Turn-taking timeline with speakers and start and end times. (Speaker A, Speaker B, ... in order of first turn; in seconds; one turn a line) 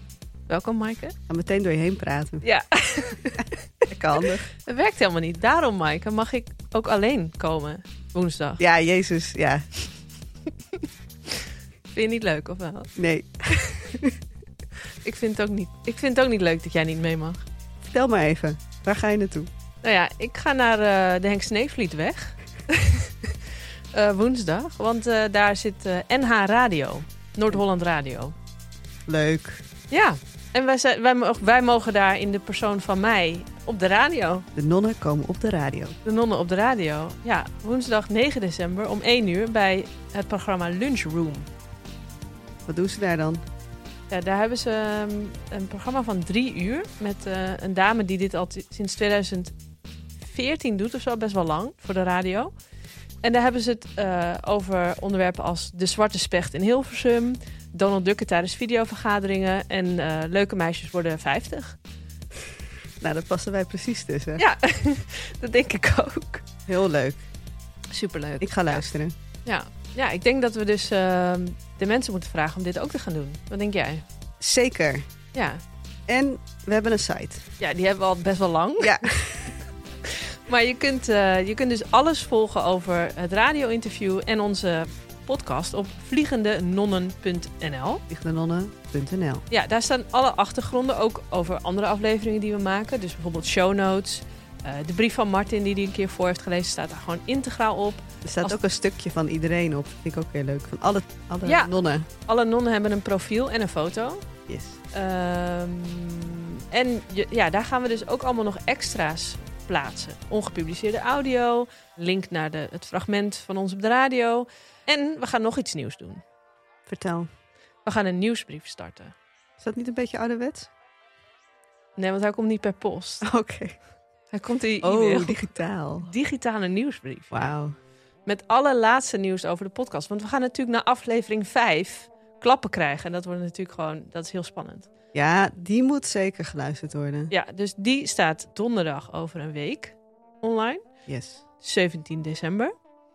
Speaker A: 0.5-1.1
Speaker B: 1.3-2.5
Speaker A: 2.4-3.5
Speaker B: 3.9-4.5
Speaker A: 4.3-8.6
Speaker B: 8.6-9.8
Speaker A: 10.7-12.9
Speaker B: 13.0-14.2
Speaker A: 15.0-17.4
Speaker B: 17.8-19.5
Speaker A: 19.8-28.3
Speaker B: 29.1-29.6
Speaker A: 29.9-34.5
Speaker B: 34.5-36.0
Speaker A: 36.0-41.5
Speaker B: 42.7-43.4
Speaker A: 44.1-49.5
Speaker A: 50.2-52.5
Speaker A: 53.2-61.8
Speaker B: 63.0-64.4
Speaker A: 64.4-66.5
Speaker B: 66.7-67.2
Speaker A: 67.9-68.9
Speaker B: 68.4-69.1
Speaker A: 69.5-74.0
Speaker B: 74.4-75.1
Speaker A: 75.3-75.6
Speaker B: 76.1-77.5
Speaker A: 77.6-79.3
Speaker B: 78.8-79.5
Speaker A: 80.0-88.0
Speaker B: 88.1-89.5
Speaker A: 89.5-98.6
Speaker B: 98.2-102.1
Speaker A: 101.4-104.2
Speaker B: 104.5-104.8
Speaker A: 104.9-116.2
Speaker B: 116.9-117.3
Speaker A: 117.8-119.1
Speaker B: 119.6-120.7
Speaker A: 122.0-123.2
Speaker B: 123.2-123.8
Speaker A: 124.3-125.4
Speaker B: 124.8-126.1
Speaker A: 126.0-127.5
Speaker B: 127.3-127.7
Speaker A: 128.2-134.9
Speaker B: 135.1-137.3
Speaker A: 137.3-140.8
Speaker B: 141.1-141.4
Speaker A: 141.6-142.7